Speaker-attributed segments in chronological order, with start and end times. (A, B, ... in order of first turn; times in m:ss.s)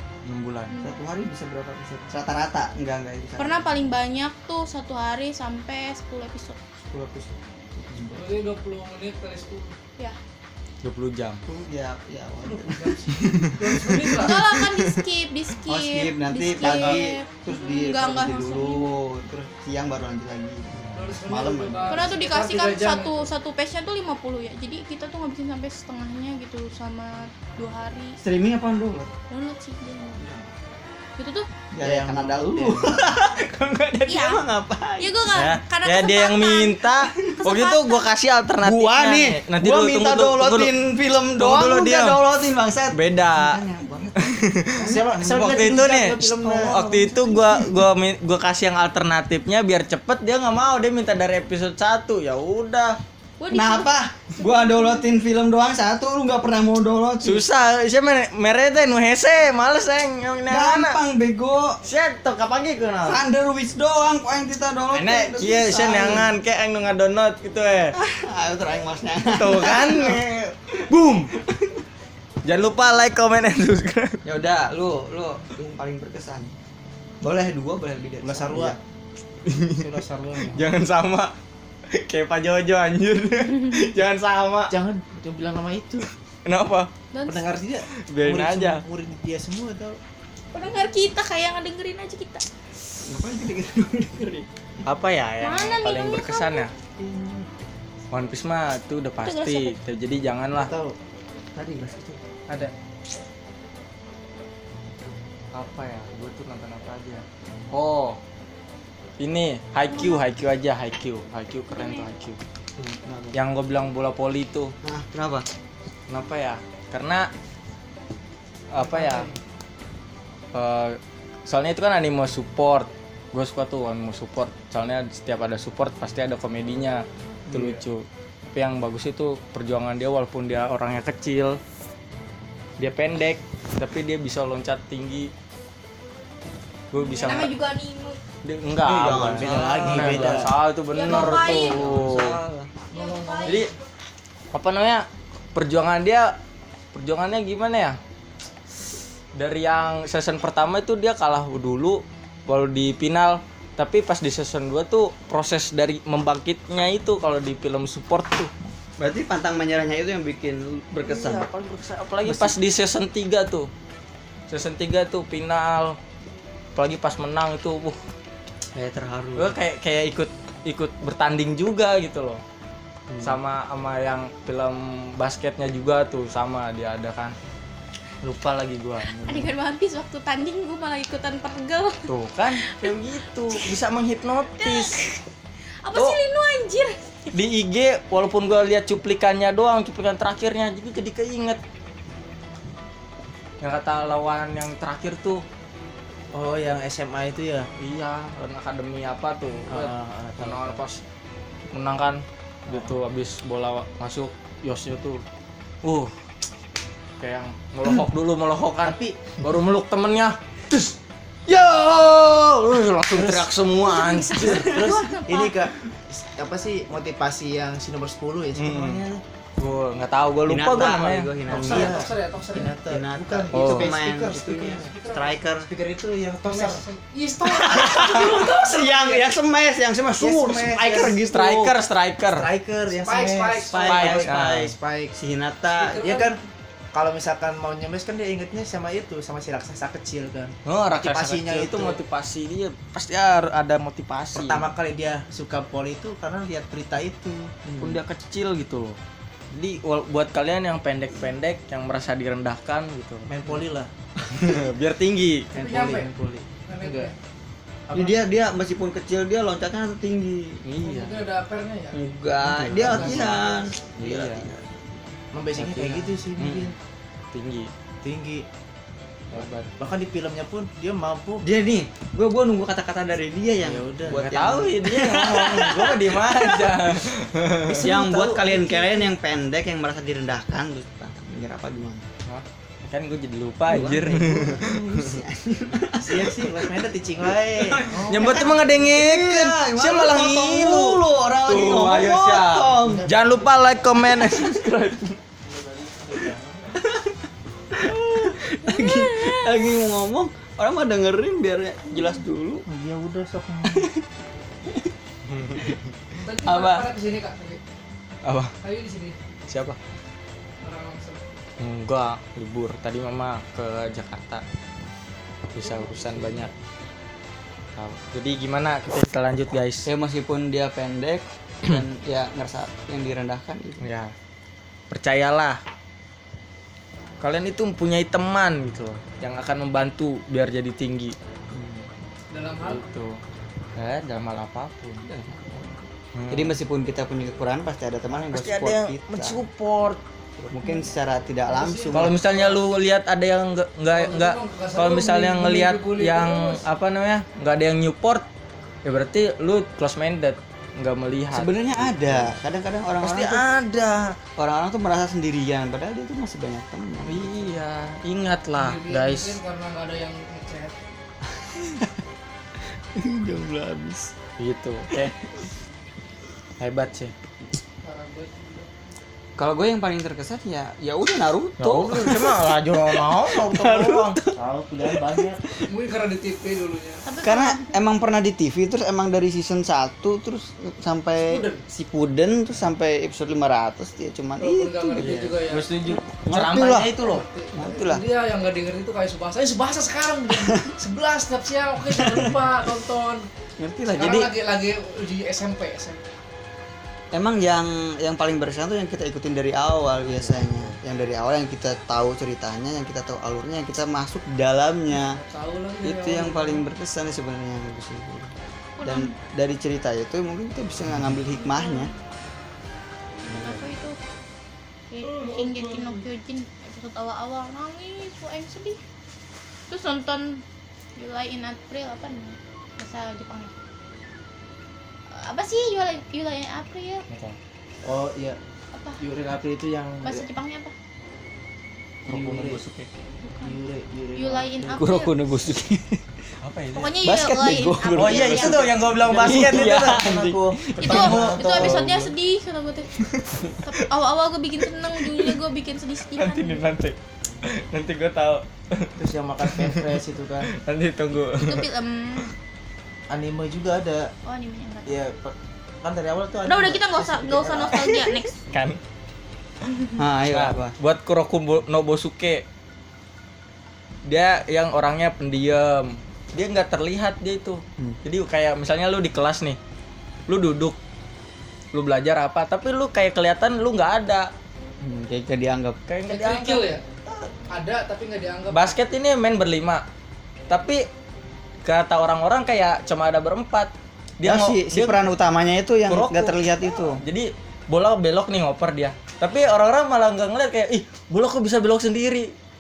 0:00.2-0:00.7 A
0:00.7-0:01.0 B
0:00.8-0:03.9 C
0:03.4-0:06.6 B
0:06.8-0:08.3 C
0:08.1-0:09.7 D
0:10.8-0:11.4 A
0:11.5-0:14.3 C
0:12.5-0:13.0 D
0:13.6-0:14.4 D
0:14.2-0:18.9 B
0:15.6-0:22.0 C
0:16.6-0:17.0 A
0:20.8-0:21.1 A
0:20.9-0:23.3 D
0:21.9-0:28.2 B
0:28.2-0:29.1 C
0:29.3-0:30.2 B
0:31.2-0:31.5 B
0:31.7-0:35.5 C
0:31.8-0:33.0 E
0:34.1-0:34.4 B
0:35.0-0:36.8 B
0:35.3-0:40.7 A
0:37.4-0:38.1 B
0:38.6-0:45.0 C
0:41.4-0:42.2 A
0:42.9-0:43.6 A
0:44.2-0:53.0 A
0:44.8-0:46.9 E
0:46.4-0:47.9 C
0:53.4-0:55.0 B
0:53.5-0:57.4 C
0:57.2-1:01.0 A
1:00.5-1:01.8 C
1:01.8-1:03.2 A
1:03.0-1:06.3 C
1:04.9-1:08.0 A
1:08.0-1:11.8 C
1:09.3-1:11.3 A
1:12.4-1:14.2 A
1:14.2-1:16.5 C
1:17.2-1:18.8 C
1:18.2-1:18.8 E
1:19.5-1:19.9 A
1:19.8-1:20.7 E
1:20.5-1:21.3 A
1:21.9-1:24.7 A
1:24.7-1:26.1 E
1:26.5-1:26.9 A
1:27.1-1:27.5 B
1:27.3-1:30.0 E
1:28.1-1:28.8 A
1:30.5-1:32.4 B
1:33.0-1:34.5 C
1:34.9-1:36.7 A
1:35.4-1:36.7 B
1:37.0-1:37.5 E
1:38.1-1:40.7 A
1:39.2-1:39.8 B
1:40.6-1:41.0 E
1:41.6-1:42.2 C
1:45.5-1:48.2 A
1:49.2-1:52.4 A
1:49.9-1:50.2 B
1:51.7-1:52.1 B
1:52.8-1:53.4 C
1:53.3-1:54.7 A
1:54.8-1:55.4 C
1:56.1-1:57.3 A
1:58.7-1:59.3 A
1:58.9-1:59.3 D
2:00.5-2:11.6 A
2:07.5-2:07.8 C
2:12.8-2:15.3 A
2:16.9-2:17.5 A
2:17.0-2:18.2 B
2:18.4-2:22.4 A
2:18.8-2:20.5 C
2:18.9-2:20.5 E
2:20.9-2:21.9 B
2:21.1-2:22.7 C
2:21.1-2:22.4 E
2:22.9-2:23.7 B
2:22.9-2:23.7 D
2:23.5-2:23.7 A
2:24.5-2:26.4 A
2:26.9-2:28.0 A
2:29.4-2:38.5 A
2:39.0-2:41.5 C
2:41.0-2:43.7 A
2:42.2-2:42.6 C
2:44.5-2:46.0 A
2:46.8-2:48.0 A
2:48.8-2:49.6 C
2:49.4-2:52.4 A
2:53.1-2:53.4 C
2:53.2-2:57.4 A
2:58.2-2:59.5 A
2:59.2-3:02.1 B
3:02.1-3:05.0 A
3:02.6-3:03.0 B
3:04.6-3:05.2 B
3:05.8-3:07.3 B
3:07.3-3:11.6 A
3:13.6-3:15.4 A
3:16.3-3:17.7 E
3:17.8-3:21.0 A
3:19.7-3:20.8 E
3:21.7-3:25.2 A
3:22.7-3:23.0 E
3:25.8-3:26.1 A
3:27.2-3:31.0 A
3:28.8-3:29.3 E
3:31.5-3:34.8 A
3:33.1-3:33.5 E
3:33.9-3:35.6 B
3:34.4-3:39.2 E
3:38.6-3:39.0 A
3:39.6-3:41.3 A
3:40.5-3:42.0 C
3:41.5-3:44.9 E
3:41.5-3:42.8 D
3:42.8-3:45.7 C
3:43.5-3:43.9 A
3:44.9-3:45.4 D
3:45.7-3:46.8 E
3:46.5-3:49.2 D
3:47.4-3:51.7 C
3:47.9-3:48.3 A
3:50.2-3:51.2 E
3:51.3-3:52.5 A
3:52.3-3:55.1 E
3:53.0-3:54.0 D
3:53.7-3:56.0 C
3:53.8-3:54.7 A
3:55.8-3:56.4 D
3:56.0-3:56.4 E
3:56.9-4:02.0 E
4:00.7-4:04.7 A
4:04.4-4:07.5 E
4:07.6-4:08.0 C
4:07.8-4:09.0 A
4:09.5-4:13.3 A
4:13.3-4:13.9 E
4:14.3-4:14.7 C
4:14.4-4:15.5 A
4:15.5-4:17.1 E
4:15.6-4:16.1 D
4:16.7-4:17.2 D
4:17.9-4:18.2 E
4:17.9-4:20.6 C
4:20.6-4:21.2 A
4:20.8-4:22.0 D
4:21.9-4:24.9 C
4:22.4-4:23.4 A
4:22.7-4:23.4 E
4:23.1-4:23.4 D
4:24.0-4:24.5 A
4:25.3-4:26.8 E
4:25.6-4:26.7 A
4:27.3-4:27.7 A
4:28.0-4:28.5 E
4:29.3-4:29.7 A
4:29.4-4:31.4 E
4:31.4-4:37.0 C
4:33.6-4:34.3 E
4:34.1-4:38.5 A
4:37.7-4:42.0 C
4:37.9-4:38.3 E
4:42.3-4:44.7 A
4:43.7-4:46.6 C
4:43.8-4:45.2 E
4:46.0-4:48.5 E
4:47.6-4:53.1 C
4:48.1-4:54.7 A
4:52.8-4:53.5 E
4:54.1-4:55.2 C
4:55.4-4:56.8 E
4:56.8-5:02.7 C
4:58.6-4:59.7 B
5:02.7-5:03.9 E
5:03.7-5:04.0 C
5:05.3-5:05.9 A
5:06.2-5:07.6 D
5:06.4-5:06.9 C
5:08.2-5:08.5 A
5:08.6-5:09.2 D
5:09.5-5:09.8 A
5:10.6-5:11.3 D
5:11.6-5:14.4 A
5:15.5-5:16.5 A
5:15.6-5:16.5 D
5:17.8-5:19.9 A
5:19.9-5:23.8 C
5:23.8-5:24.1 A
5:24.9-5:25.6 A
5:27.2-5:31.2 A
5:31.5-5:31.9 C
5:32.3-5:32.9 D
5:32.6-5:33.2 A
5:33.8-5:35.0 A
5:35.0-5:39.4 C
5:36.1-5:36.6 A
5:38.2-5:40.0 A
5:40.4-5:42.2 C
5:41.5-5:42.3 D
5:41.9-5:48.3 A
5:43.9-5:46.6 D
5:48.8-5:52.3 A
5:51.3-5:53.5 C
5:53.0-5:54.1 A
5:54.4-5:57.3 C
5:57.0-5:59.4 A
5:58.6-6:00.8 D
6:01.3-6:02.0 C
6:03.0-6:04.1 C
6:04.4-6:05.1 A
6:06.6-6:07.1 A
6:07.8-6:08.7 D
6:09.4-6:14.4 C
6:11.6-6:14.2 A
6:14.4-6:15.4 E
6:14.9-6:15.6 C
6:15.7-6:17.0 D
6:17.1-6:17.7 B
6:17.2-6:25.1 C
6:21.2-6:21.6 D
6:24.4-6:25.7 D
6:25.0-6:27.2 A
6:26.3-6:26.9 C
6:27.0-6:33.2 D
6:27.6-6:28.0 C
6:30.3-6:30.7 C
6:32.0-6:32.3 C
6:33.6-6:34.3 C
6:33.9-6:36.0 D
6:37.1-6:45.2 C
6:40.0-6:40.8 A
6:44.9-6:46.6 D
6:45.8-6:51.9 C
6:48.8-6:49.2 B
6:51.4-6:52.0 B
6:53.2-6:54.0 B
6:53.3-6:53.6 A
6:54.9-6:58.8 B
6:59.7-7:00.4 B
7:01.0-7:03.5 B
7:05.1-7:07.0 B
7:07.1-7:07.4 A
7:07.8-7:08.4 E
7:08.7-7:09.0 B
7:09.0-7:10.2 E
7:10.0-7:10.7 B
7:12.1-7:12.6 E
7:12.1-7:12.7 C
7:12.5-7:12.9 A
7:13.2-7:13.6 B
7:13.4-7:14.8 E
7:14.2-7:15.2 B
7:14.8-7:16.0 C
7:16.4-7:17.0 A
7:16.7-7:18.7 B
7:17.0-7:21.8 C
7:18.0-7:22.1 A
7:19.0-7:21.9 E
7:20.8-7:22.9 B
7:23.6-7:26.6 B
7:26.2-7:28.9 A
7:29.0-7:30.5 E
7:29.4-7:30.0 A
7:30.5-7:31.7 A
7:31.4-7:32.3 B
7:33.1-7:34.1 E
7:34.2-7:35.0 B
7:34.9-7:37.9 E
7:36.5-7:38.4 B
7:37.8-7:38.8 A
7:40.0-7:40.8 C
7:40.3-7:42.4 A
7:44.1-7:49.6 A
7:50.3-7:50.8 A
7:51.7-7:54.3 A
7:54.8-7:55.8 C
7:55.9-7:57.3 A
7:56.1-7:56.8 D
7:57.5-7:58.6 D
7:58.5-7:59.8 A
8:00.5-8:00.8 A
8:01.6-8:05.0 A
8:04.2-8:07.0 C
8:05.9-8:12.3 A